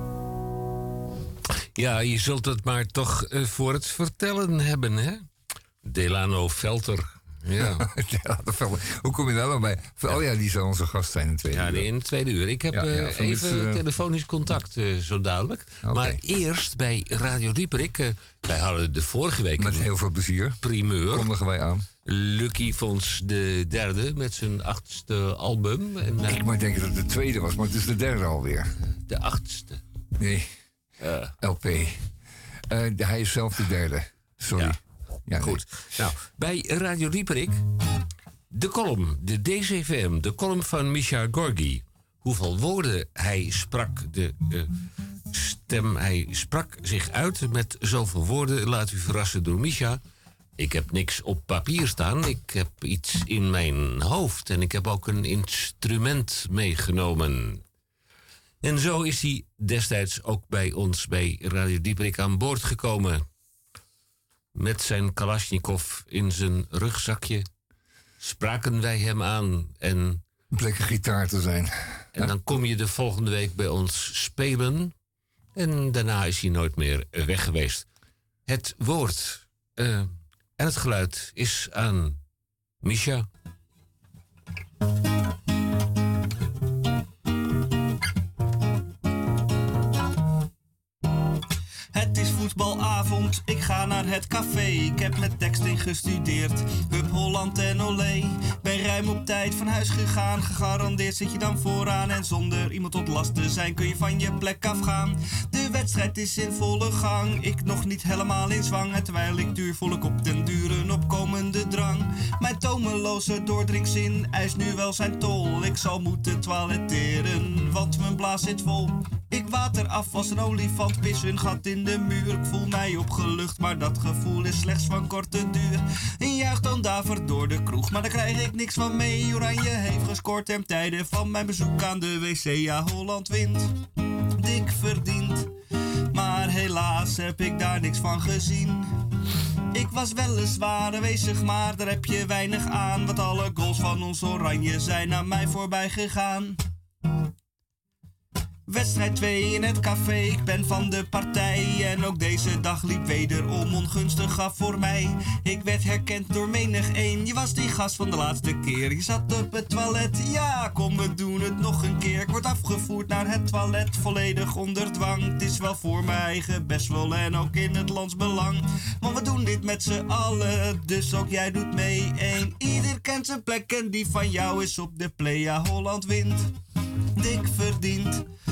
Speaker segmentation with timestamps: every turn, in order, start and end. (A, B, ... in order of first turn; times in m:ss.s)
0:01.7-0:05.2 A
0:05.8-0:07.8 A
0:07.6-0:11.9 B
0:11.5-0:19.9 A
0:12.7-0:13.8 B
0:15.8-0:16.2 B
0:19.6-0:21.8 B
0:20.6-0:21.3 A
0:22.0-0:26.4 A
0:26.2-0:28.7 B
0:29.0-0:29.8 A
0:30.2-0:30.5 B
0:31.0-0:31.3 A
0:31.4-0:32.0 B
0:32.7-0:35.6 B
0:35.4-0:37.6 A
0:38.5-0:44.7 A
0:45.3-0:50.0 A
0:50.6-0:57.6 A
0:58.6-1:03.2 A
1:04.5-1:07.5 A
1:08.2-1:10.2 A
1:10.5-1:12.3 B
1:12.2-1:14.9 A
1:15.5-1:17.8 A
1:18.5-1:22.2 A
1:22.8-1:23.3 A
1:31.9-2:13.7 C
2:14.4-2:15.5 C
2:16.1-2:18.8 C
2:19.7-2:26.6 C
2:28.7-2:56.5 C
2:57.2-2:58.2 C